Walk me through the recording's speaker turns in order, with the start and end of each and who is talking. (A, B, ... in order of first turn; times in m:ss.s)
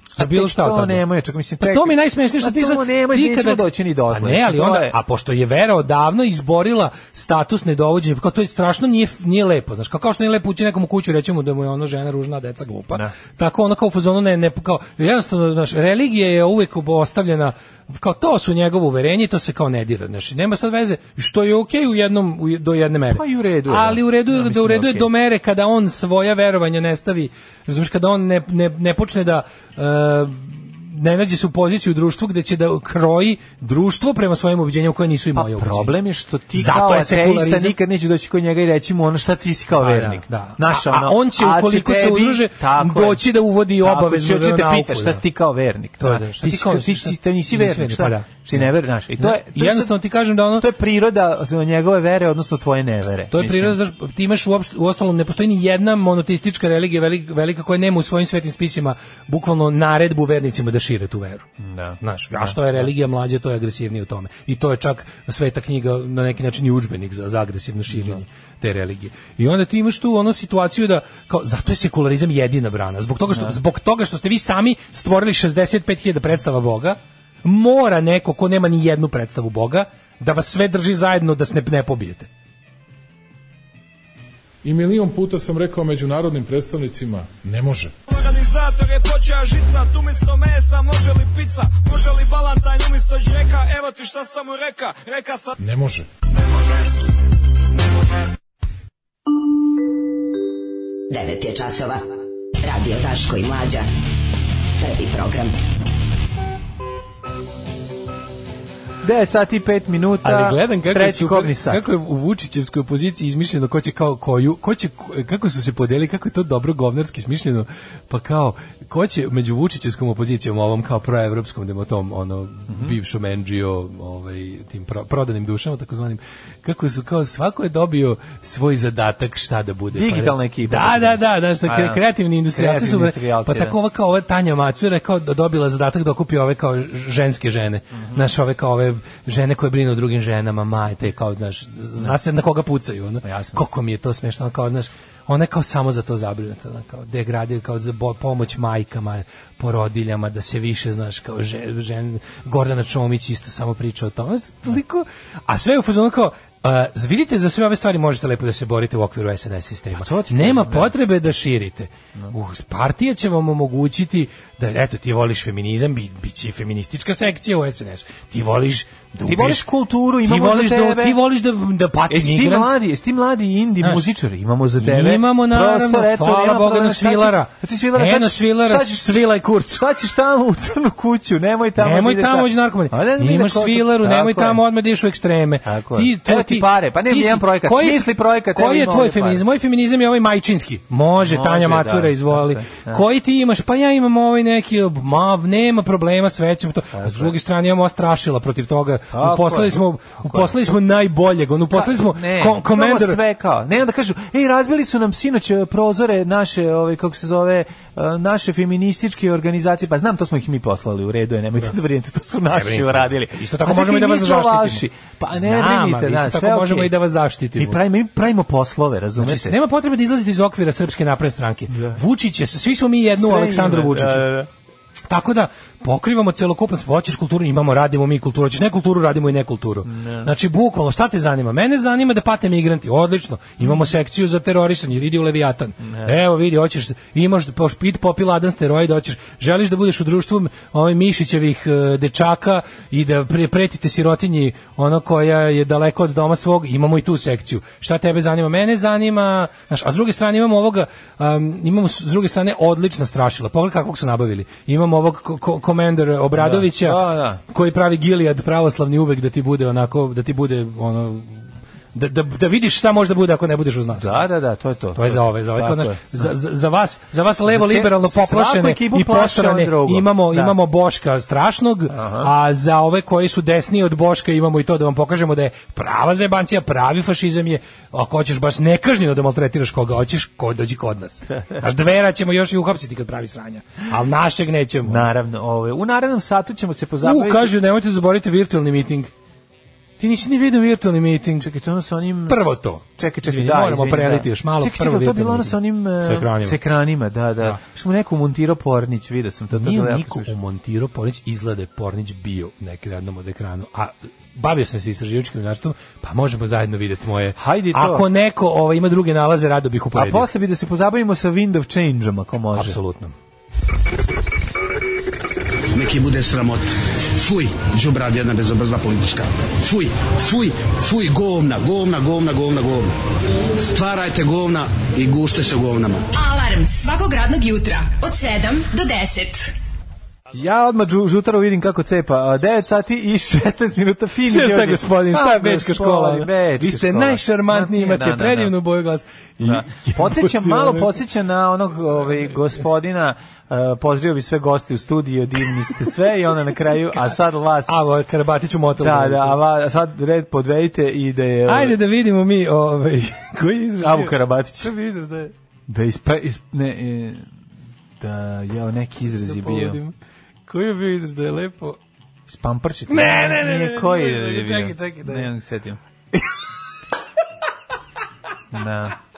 0:00.2-0:05.0 A
0:00.2-0:01.0 B
0:01.6-0:36.0 B
0:23.1-0:25.1 A
0:35.4-0:43.2 A
0:36.6-0:37.8 B
0:39.8-0:45.2 B
0:43.8-0:50.0 A
0:46.0-0:50.7 B
0:50.5-0:53.8 A
0:53.3-1:01.5 B
1:01.6-1:02.9 A
1:02.0-1:22.3 B
1:07.9-1:08.2 A
1:13.3-1:13.6 A
1:24.6-1:28.0 C
1:28.2-1:35.5 D
1:35.6-1:36.1 C
1:41.1-1:42.1 E
1:42.6-1:43.9 E
1:44.8-1:45.6 E
1:49.0-1:51.8 A
1:50.2-2:49.7 B
2:02.7-2:03.0 A
2:09.9-2:12.0 A
2:12.5-2:13.8 A
2:23.2-2:23.6 A
2:39.9-2:40.9 A
2:49.3-2:51.2 A
2:50.2-2:52.7 B
2:52.1-3:04.6 A
2:54.8-2:59.8 B
3:01.8-3:23.2 B
3:05.6-3:09.4 A
3:11.2-3:13.0 A
3:16.9-3:17.4 A
3:19.1-3:20.5 A
3:21.7-3:36.9 A
3:32.5-3:37.8 B
3:37.6-3:39.6 A
3:39.2-3:44.3 B
3:41.7-3:42.0 A
3:43.2-3:44.5 A
3:45.1-4:24.3 B
3:49.9-3:50.3 A
4:16.3-4:17.4 A
4:24.0-4:26.2 A
4:25.0-4:45.1 B
4:27.4-4:30.6 A
4:31.9-4:32.3 A
4:44.9-4:47.6 A
4:47.0-4:49.1 B
4:50.0-4:51.5 B
4:51.4-5:00.3 A
4:52.3-4:56.6 B
4:59.5-5:10.3 B
5:07.4-5:08.1 A
5:10.0-5:12.8 A
5:12.6-5:13.1 B
5:15.7-5:22.9 F
5:23.6-5:26.1 F
5:26.1-5:29.6 G
5:30.3-5:38.5 A
5:34.3-5:41.0 B
5:39.4-5:48.0 A
5:47.7-5:49.4 B
5:48.8-5:51.8 A
5:51.4-5:55.3 B
5:53.8-5:54.7 A
5:55.7-5:57.3 A
5:58.0-5:59.8 A
5:59.1-6:00.0 B
6:00.5-6:01.8 B
6:02.3-6:05.8 A
6:02.9-6:05.3 B
6:08.5-6:09.0 A